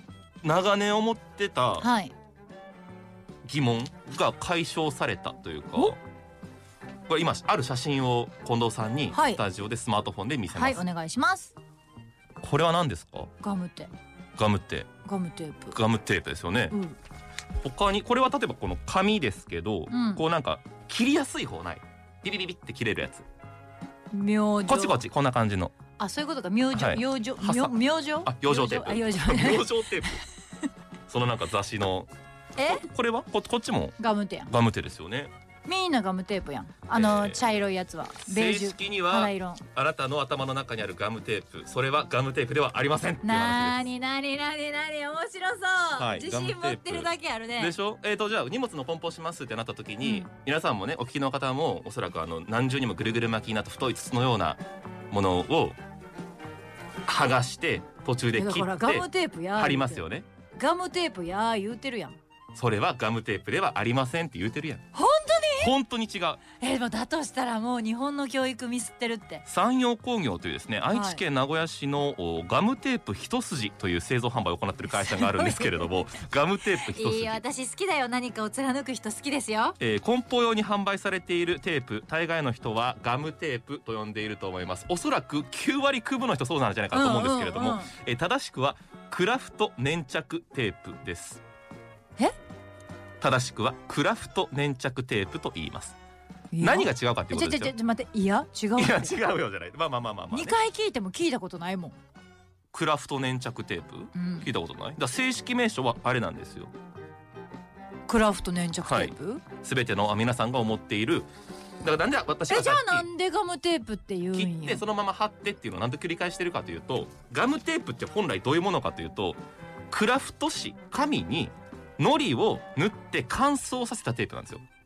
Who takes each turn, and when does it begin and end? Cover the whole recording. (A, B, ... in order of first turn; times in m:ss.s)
0:00.4-0:01.9 A
0:01.8-0:02.1 B
0:03.4-0:06.0 A
0:07.1-0:10.8 A
0:09.1-0:09.4 B
0:10.5-0:11.5 B
0:12.4-0:13.3 A
0:13.4-0:13.9 B
0:14.4-0:14.9 A
0:15.0-0:15.8 B
0:15.7-0:16.8 A
0:16.7-0:17.0 B
0:17.6-0:23.2 A
0:19.9-0:20.2 B
0:24.1-0:25.0 B
0:24.6-0:25.7 A
0:26.0-0:30.2 B
0:26.7-0:30.2 A
0:31.1-0:32.1 A
0:32.6-0:32.8 B
0:32.7-0:34.0 A
0:34.0-0:34.5 B
0:34.5-0:35.3 A
0:35.6-0:39.6 B
0:36.9-0:37.4 A
0:38.2-0:43.8 A
0:43.2-0:47.8 B
0:46.0-0:54.6 A
0:50.0-0:50.3 B
0:55.1-0:55.8 A
0:57.0-1:00.2 A
0:58.3-1:00.0 B
1:00.6-1:02.2 B
1:02.5-1:04.8 A
1:04.9-1:05.7 B
1:05.6-1:06.4 A
1:06.6-1:09.4 B
1:09.4-1:17.4 A
1:10.9-1:11.2 B
1:15.0-1:15.9 B
1:16.7-1:19.8 B
1:19.8-1:31.4 A
1:26.9-1:27.9 B
1:33.2-1:36.0 A
1:36.5-1:39.2 B
1:36.6-1:37.7 A
1:38.8-1:40.6 A
1:40.3-1:42.0 B
1:42.7-1:46.7 A
1:44.1-1:44.5 B
1:48.1-1:49.4 B
1:48.8-1:51.3 A
1:51.8-1:53.0 A
1:52.5-1:54.8 B
1:54.3-1:59.4 A
1:59.9-2:04.6 A